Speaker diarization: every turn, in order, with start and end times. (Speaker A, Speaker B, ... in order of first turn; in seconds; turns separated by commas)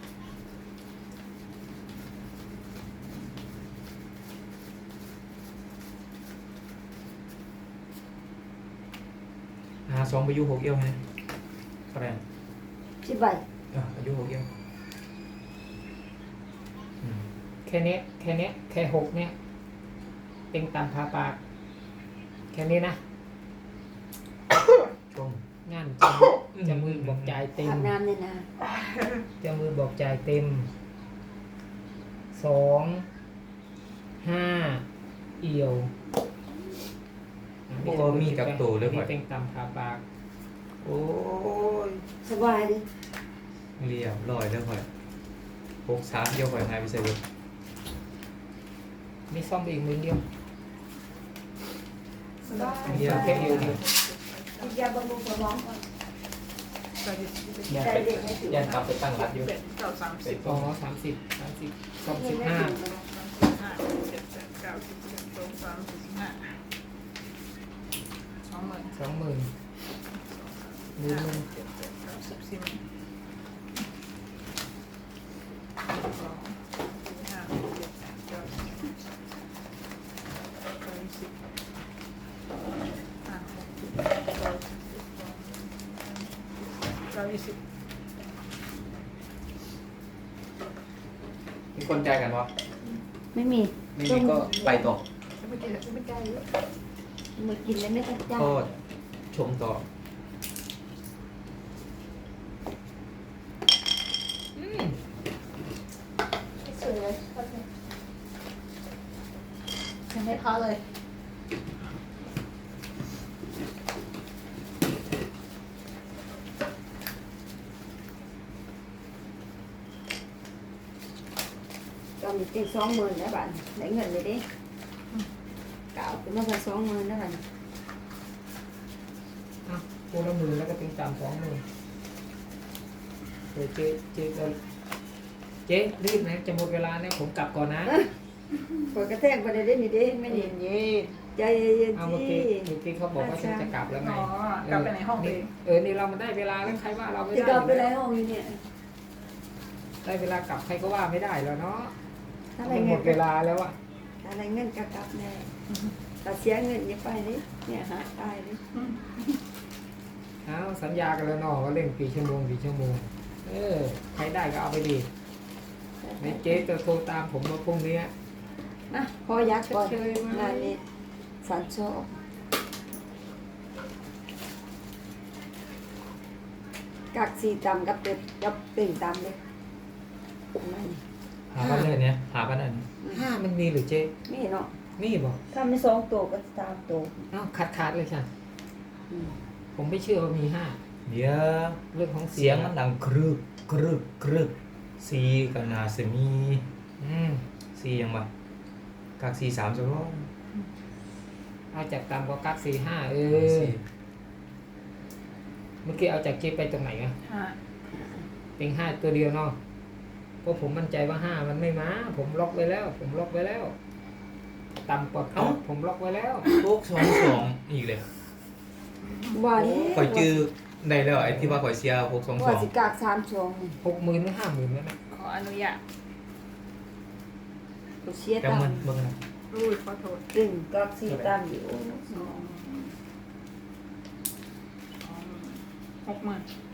Speaker A: 9.8-11.0, Speaker A: 11.9-12.2, Speaker B: 13.0-13.4, Speaker A: 13.7-14.5, Speaker A: 17.0-17.3, Speaker C: 17.6-19.3, Speaker C: 20.5-21.4, Speaker C: 22.5-23.0, Speaker A: 25.1-25.4, Speaker C: 25.6-27.9, Speaker A: 26.5-27.4, Speaker B: 27.6-28.5, Speaker C: 29.4-30.7, Speaker C: 32.3-33.1, Speaker C: 34.2-34.8, Speaker C: 35.4-35.9, Speaker C: 37.7-40.0, Speaker A: 37.8-39.1, Speaker A: 40.8-42.1, Speaker B: 42.2-42.9, Speaker A: 43.8-44.9, Speaker A: 45.8-47.2, Speaker C: 49.3-50.2, Speaker D: 52.4-54.8, Speaker B: 52.5-53.6, Speaker A: 52.9-53.8, Speaker C: 52.9-53.8, Speaker B: 54.6-55.9, Speaker D: 57.0-60.7, Speaker A: 57.7-59.5, Speaker B: 57.8-58.6, Speaker A: 60.2-60.6, Speaker C: 60.4-62.8, Speaker B: 62.1-63.0, Speaker D: 62.9-66.6, Speaker D: 68.5-68.9, Speaker C: 68.9-69.5, Speaker D: 70.1-72.8, Speaker C: 71.0-71.4, Speaker D: 75.9-79.1, Speaker D: 80.7-81.4, Speaker D: 83.2-87.6, Speaker A: 91.7-92.5, Speaker B: 93.3-94.5, Speaker A: 94.0-95.0, Speaker D: 94.5-94.8, Speaker D: 95.4-96.5, Speaker B: 97.3-98.6, Speaker A: 98.3-98.7, Speaker A: 99.3-99.9, Speaker C: 104.5-105.0, Speaker D: 106.6-107.7, Speaker D: 110.1-110.8, Speaker B: 122.2-124.5, Speaker B: 125.9-127.4, Speaker C: 129.6-131.6, Speaker C: 133.5-134.6, Speaker C: 135.7-138.0, Speaker B: 137.9-138.1, Speaker B: 138.9-140.5, Speaker D: 140.3-141.2, Speaker B: 141.3-143.7, Speaker C: 141.9-147.9, Speaker D: 143.9-145.5, Speaker B: 147.3-148.6, Speaker C: 150.0-151.9, Speaker B: 152.5-153.2, Speaker C: 152.6-153.8, Speaker B: 154.2-155.5, Speaker B: 156.2-158.6, Speaker D: 158.8-159.2, Speaker C: 160.4-165.1, Speaker B: 166.0-166.6, Speaker C: 166.2-168.1, Speaker B: 168.9-170.8, Speaker C: 169.4-170.8, Speaker B: 171.4-172.2, Speaker B: 177.1-179.4, Speaker B: 180.5-181.0, Speaker A: 181.5-182.9, Speaker C: 181.6-182.0, Speaker C: 183.1-184.1, Speaker B: 184.2-184.7, Speaker C: 185.0-185.4, Speaker B: 185.5-187.3, Speaker C: 187.3-188.3, Speaker B: 189.1-189.4, Speaker C: 189.7-190.8, Speaker A: 191.1-191.8, Speaker C: 191.9-192.7, Speaker A: 192.3-196.7, Speaker C: 197.0-197.4, Speaker A: 197.7-198.3, Speaker A: 199.2-200.3, Speaker C: 201.7-203.7, Speaker A: 203.3-203.8, Speaker C: 205.8-207.1, Speaker D: 207.2-207.6, Speaker B: 208.0-208.2, Speaker C: 208.6-209.6, Speaker C: 210.4-213.7, Speaker C: 214.8-216.5, Speaker A: 216.5-218.1, Speaker D: 219.0-219.4, Speaker B: 219.3-220.4, Speaker A: 219.5-222.7, Speaker C: 221.1-221.6, Speaker B: 222.4-223.8, Speaker C: 223.8-224.9, Speaker D: 225.1-225.8, Speaker B: 228.0-228.9, Speaker A: 228.4-229.2, Speaker D: 229.5-230.2, Speaker B: 230.3-232.4, Speaker A: 231.1-231.3, Speaker D: 232.1-232.9, Speaker D: 235.0-236.5